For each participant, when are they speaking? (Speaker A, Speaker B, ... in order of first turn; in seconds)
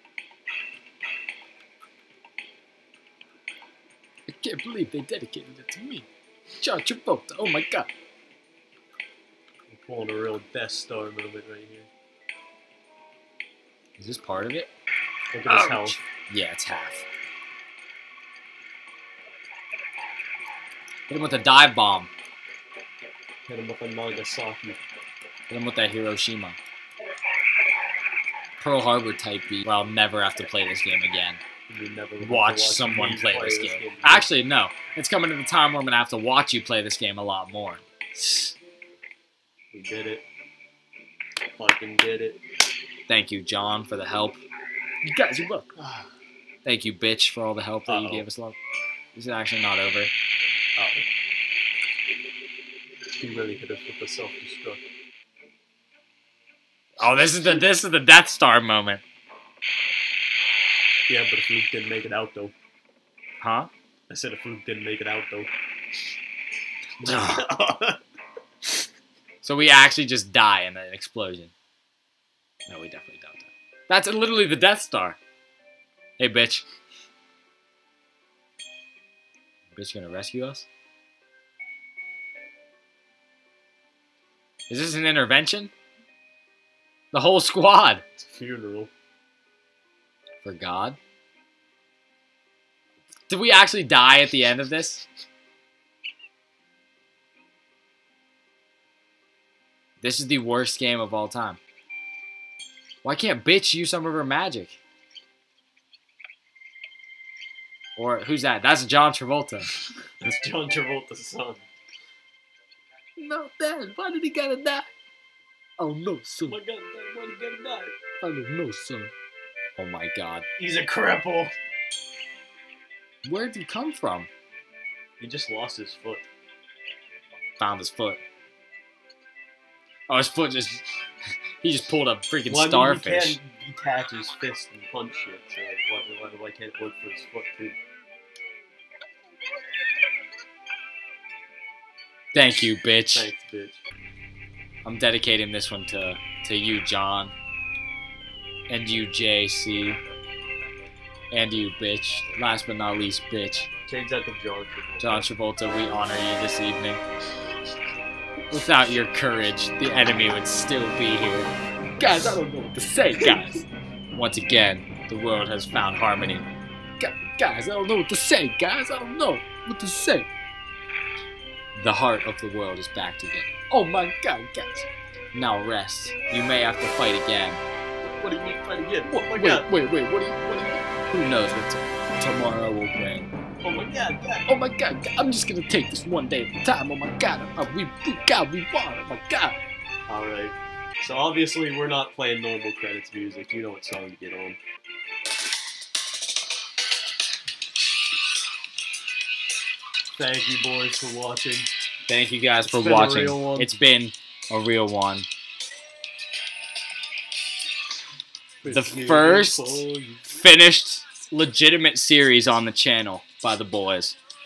Speaker A: 4.3-6.1, 6.6-7.9, 14.0-14.7, 15.5-17.1, 21.1-22.1, 25.5-26.6, 28.6-31.4, 32.2-38.5, 43.1-44.4, 45.1-45.7, 46.6-48.6, 49.1-50.1, 57.0-59.0, 63.4-63.7, 67.0-67.5, 69.4-71.5, 72.7-75.2, 76.2-76.6, 79.7-80.7, 84.7-85.7, 87.1-88.0, 90.4-91.0, 93.3-95.0, 100.0-101.6, 103.0-104.8, 108.0-109.7, 113.2-114.9, 115.8-116.6, 118.2-119.1, 119.8-120.5, 123.2-124.3, 127.6-128.2, 130.1-130.9, 131.6-133.4, 142.3-143.3, 144.8-147.3, 148.7-150.0, 151.3-153.7, 155.0-157.0, 158.5-166.5, 167.0-170.3, 171.8-177.6, 179.0-183.3, 184.5-189.6, 202.1-205.3, 208.7-214.2
Speaker B: 9.7-11.9, 15.3-16.0, 23.5-24.8, 31.7-34.3, 39.7-40.2, 41.6-42.4, 45.8-46.1, 47.9-48.3, 50.8-51.1, 53.2-54.8, 61.1-62.5, 64.1-65.5, 67.0-68.0, 88.2-88.9, 110.2-111.7, 116.5-118.0, 120.6-121.5, 125.2-126.2, 132.5-137.8, 143.1-143.8, 153.9-155.3, 178.1-179.7, 183.6-184.5, 190.1-194.6, 200.2-201.7, 202.7-203.7, 208.6-210.3